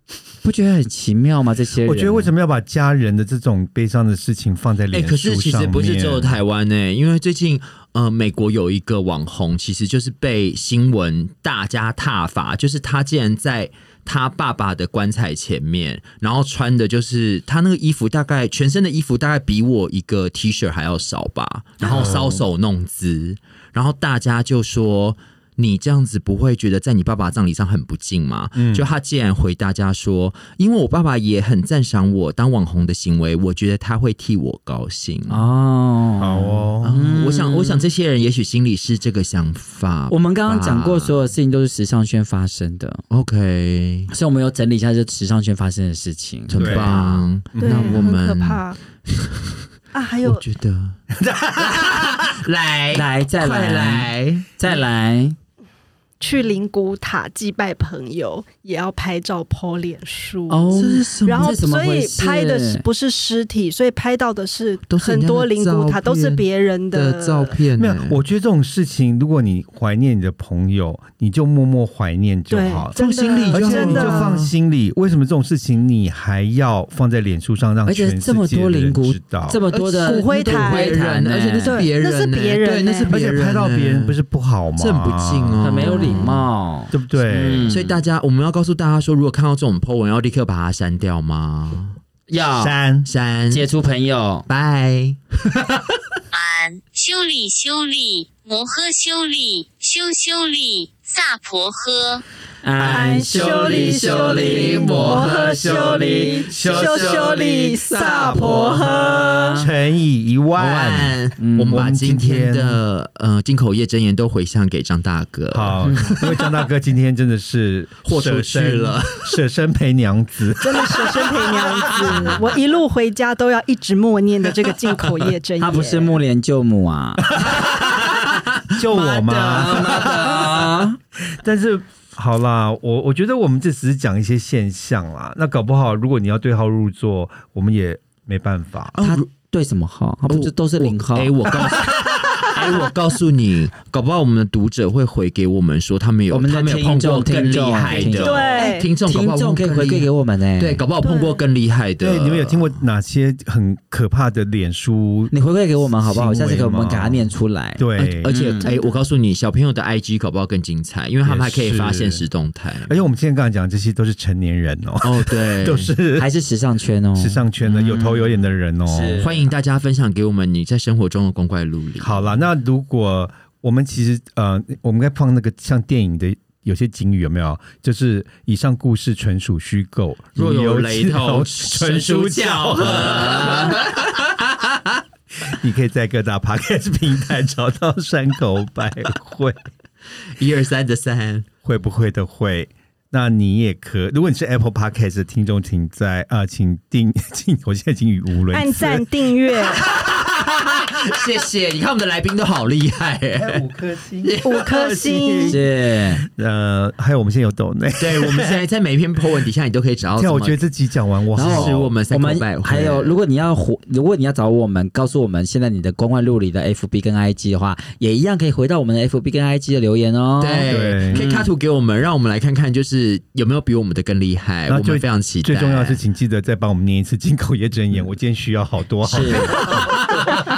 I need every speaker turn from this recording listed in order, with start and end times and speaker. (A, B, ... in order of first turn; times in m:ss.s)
0:00.4-0:02.3 A
0:01.8-0:06.4 B
0:04.9-0:35.4 C
0:21.8-0:22.4 B
0:28.6-0:28.9 B
0:35.3-0:37.9 A
0:36.2-0:36.9 B
0:36.8-0:41.2 C
0:40.1-0:43.0 A
0:43.1-0:44.1 C
0:44.1-0:47.2 A
0:46.5-0:49.6 C
0:46.6-0:48.0 B
0:47.6-0:48.8 D
0:49.9-0:50.4 D
0:50.2-0:51.0 C
0:51.1-0:52.4 B
0:51.6-0:54.5 C
0:52.9-0:55.4 A
0:56.2-1:07.6 D
1:00.5-1:02.8 A
1:00.7-1:01.6 C
1:04.9-1:08.2 C
1:07.8-1:12.9 B
1:12.5-1:14.3 D
1:13.0-1:14.5 C
1:13.5-1:19.6 B
1:17.9-1:21.9 A
1:19.7-1:24.2 C
1:20.0-1:21.0 D
1:21.6-1:23.1 D
1:23.1-1:26.0 B
1:24.8-1:26.5 C
1:25.6-1:28.0 A
1:26.9-1:27.7 B
1:27.7-1:32.0 C
1:32.3-1:32.8 A
1:32.4-1:33.1 B
1:33.0-1:33.7 C
1:33.5-1:34.5 A
1:34.5-1:35.9 C
1:36.3-1:42.2 E
1:42.6-1:45.2 A
1:42.8-1:49.6 D
1:42.8-1:47.9 C
1:44.7-1:52.8 B
1:46.0-1:46.4 A
1:49.4-1:49.7 A
1:50.6-1:56.6 C
1:51.4-1:51.7 A
1:55.5-2:02.4 B
1:55.8-1:56.2 A
1:58.0-1:59.4 C
2:00.6-2:06.2 D
2:02.0-2:02.4 C
2:05.6-2:07.3 A
2:07.4-2:07.7 B
2:08.8-2:10.7 B
2:08.9-2:11.0 A
2:09.5-2:10.0 C
2:11.2-2:19.0 B
2:19.0-2:19.3 C
2:19.0-2:21.3 A
2:20.3-2:32.8 C
2:26.3-2:30.8 A
2:27.9-2:28.9 D
2:31.0-2:31.4 D
2:32.0-2:38.3 B
2:35.3-2:38.7 A
2:38.0-2:42.9 C
2:38.6-2:39.0 D
2:41.2-2:42.2 B
2:42.9-2:46.3 B
2:45.0-2:45.9 C
2:46.2-2:48.3 A
2:47.2-2:49.3 B
2:48.9-2:49.5 A
2:49.2-2:52.3 C
2:52.0-3:03.8 B
3:00.4-3:05.0 C
3:03.2-3:03.8 A
3:05.4-3:09.6 B
3:10.4-3:11.5 C
3:11.6-3:19.1 B
3:18.5-3:19.8 D
3:19.6-3:23.6 C
3:23.3-3:25.7 B
3:24.2-3:24.7 C
3:24.4-3:25.6 D
3:25.5-3:26.3 A
3:26.2-3:28.6 B
3:28.0-3:30.6 C
3:30.2-3:31.9 B
3:31.4-3:41.5 A
3:31.4-3:33.1 C
3:40.4-3:46.0 C
3:40.7-3:41.2 B
3:44.7-3:49.9 B
3:49.0-3:49.7 A
3:49.4-3:50.2 C